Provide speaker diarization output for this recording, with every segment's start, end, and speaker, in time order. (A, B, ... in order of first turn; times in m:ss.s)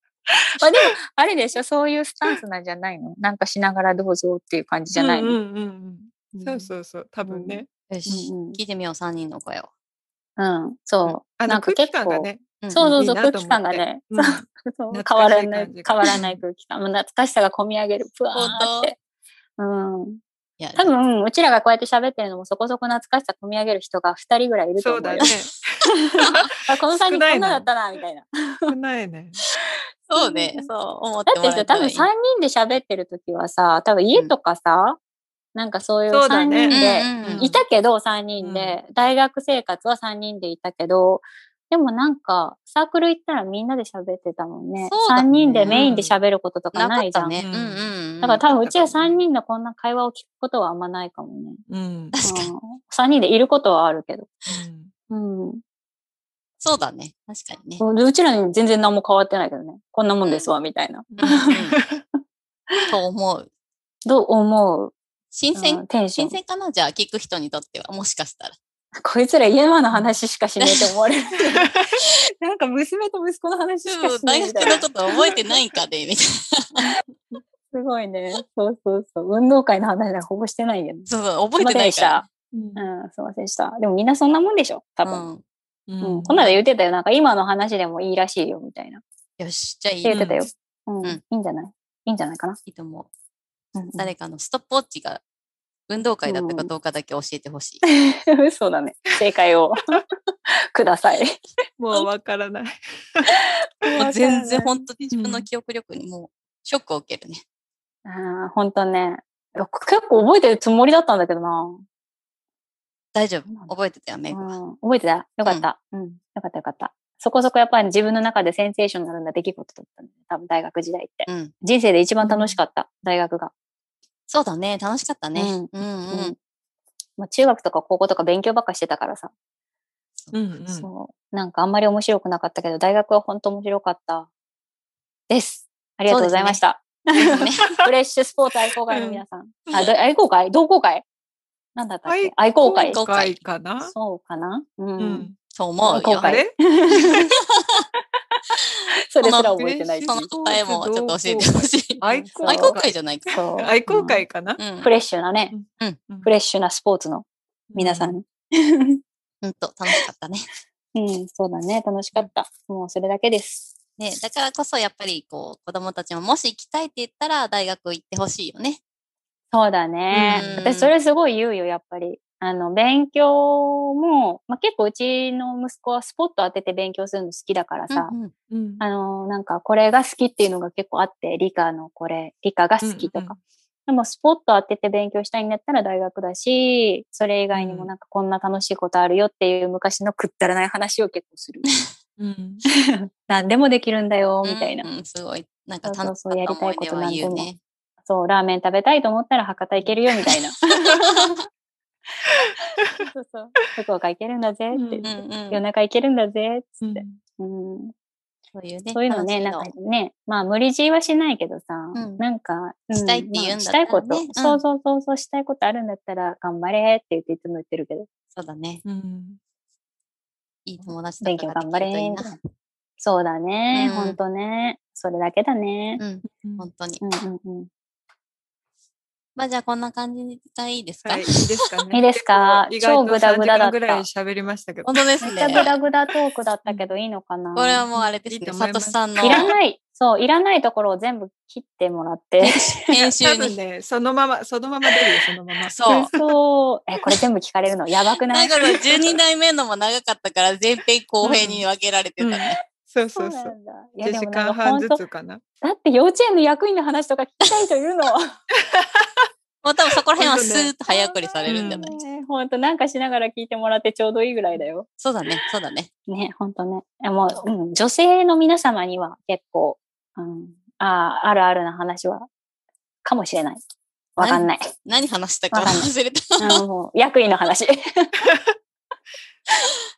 0:00.3-0:05.4 A
0:04.9-0:07.7 B
0:06.3-0:06.7 A
0:07.2-0:08.6 A
0:07.9-0:09.7 C
0:10.4-0:19.0 A
0:11.4-0:16.4 B
0:12.6-0:13.0 C
0:18.3-0:18.9 C
0:19.6-0:20.2 A
0:20.6-0:20.9 C
0:20.8-0:25.3 A
0:24.8-0:27.7 B
0:25.9-0:28.7 A
0:28.7-0:29.4 B
0:30.1-0:32.1 C
0:30.1-0:30.7 A
0:31.3-0:35.0 A
0:35.6-0:47.4 A
0:36.1-0:37.6 B
0:36.7-0:37.5 C
0:38.4-0:38.8 B
0:44.8-0:45.9 C
0:45.6-0:46.1 B
0:46.7-0:48.4 C
0:47.4-0:47.9 B
0:48.2-0:51.6 A
0:48.5-0:49.2 B
0:51.7-0:52.2 B
0:52.1-0:52.5 C
0:52.2-0:54.3 A
0:54.5-0:54.9 B
0:55.1-0:55.6 A
0:56.6-0:57.8 C
0:57.8-1:01.7 A
1:00.2-1:00.6 C
1:01.1-1:02.0 B
1:01.2-1:01.8 C
1:02.9-1:03.5 C
1:04.1-1:04.9 A
1:05.3-1:08.6 C
1:05.5-1:06.4 A
1:09.0-1:15.4 A
1:09.9-1:10.2 B
1:10.6-1:10.9 C
1:11.5-1:12.0 B
1:13.9-1:16.9 C
1:17.7-1:25.2 A
1:21.1-1:22.2 C
1:22.5-1:22.8 B
1:25.0-1:25.4 C
1:25.9-1:26.5 B
1:26.0-1:29.0 A
1:29.4-1:30.3 C
1:30.0-1:32.6 A
1:30.1-1:30.5 B
1:32.6-1:33.1 C
1:33.7-1:34.1 A
1:34.0-1:35.2 C
1:35.9-1:37.8 C
1:36.3-1:36.7 A
1:37.8-1:39.8 A
1:40.7-1:41.4 A
1:41.8-1:43.3 B
1:43.3-1:44.8 A
1:44.0-1:47.4 C
1:45.1-1:45.5 B
1:48.0-1:51.8 A
1:53.1-1:54.6 C
1:53.4-1:53.7 A
1:54.3-2:03.5 A
2:01.3-2:01.5 C
2:02.2-2:02.6 B
2:04.3-2:06.3 C
2:05.4-2:06.3 A
2:07.2-2:09.3 A
2:10.3-2:10.9 B
2:10.7-2:14.3 A
2:15.3-2:21.0 A
2:16.1-2:16.6 C
2:17.2-2:17.7 C
2:17.4-2:17.8 B
2:18.9-2:19.9 B
2:21.7-2:23.0 A
2:22.1-2:23.9 B
2:22.9-2:23.4 C
2:23.8-2:25.3 A
2:25.0-2:25.4 B
2:25.5-2:26.4 C
2:25.8-2:27.3 A
2:26.2-2:27.2 B
2:29.1-2:30.3 A
2:29.2-2:33.3 C
2:29.5-2:34.6 B
2:32.0-2:32.8 A
2:33.3-2:34.2 A
2:34.6-2:34.9 C
2:34.8-2:35.6 A
2:35.5-2:36.3 B
2:36.2-2:39.0 A
2:37.7-2:38.2 B
2:39.4-2:40.5 C
2:40.9-2:43.7 A
2:44.0-2:48.8 C
2:49.5-2:58.1 A
2:50.2-2:50.5 B
2:50.3-2:50.9 C
2:57.9-2:58.3 C
2:58.5-2:58.8 B
2:58.8-3:11.7 A
3:02.8-3:03.4 B
3:07.5-3:07.9 B
3:12.2-3:12.6 B
3:12.7-3:14.8 A
3:14.4-3:17.6 C
3:15.8-3:17.5 A
3:18.0-3:21.1 A
3:21.1-3:21.4 C
3:22.6-3:27.9 A
3:22.8-3:23.1 B
3:24.7-3:25.0 B
3:25.0-3:25.6 C
3:26.8-3:27.2 B
3:28.5-3:29.7 C
3:28.9-3:38.1 A
3:31.9-3:32.2 C
3:32.9-3:34.6 C
3:38.3-3:38.8 C
3:38.8-3:39.4 B
3:40.6-3:42.4 C
3:41.2-3:42.4 A
3:43.0-3:46.0 A
3:43.7-3:44.2 C
3:46.0-3:47.0 C
3:46.3-3:46.7 B
3:47.0-3:47.7 A
3:49.4-3:51.4 C
3:51.0-3:54.9 B
3:51.9-3:54.0 A
3:54.8-3:55.8 C
3:55.2-3:57.8 A
3:55.5-3:55.8 B
3:57.6-3:59.5 C
3:57.9-3:59.6 B
3:59.2-4:03.1 A
4:02.4-4:03.6 C
4:03.2-4:06.3 B
4:05.7-4:06.1 C
4:05.9-4:08.6 A
4:08.3-4:12.5 C
4:11.2-4:11.6 B
4:12.2-4:15.4 B
4:13.2-4:15.0 A
4:15.6-4:18.3 A
4:18.6-4:19.3 B
4:19.6-4:21.9 C
4:20.2-4:20.7 B
4:20.9-4:24.9 A
4:21.4-4:22.0 B
4:25.0-4:25.9 C
4:26.1-4:32.3 A
4:33.0-4:33.6 A
4:34.2-4:34.7 A
4:34.2-4:36.6 C
4:35.5-4:38.1 A
4:38.2-4:38.6 B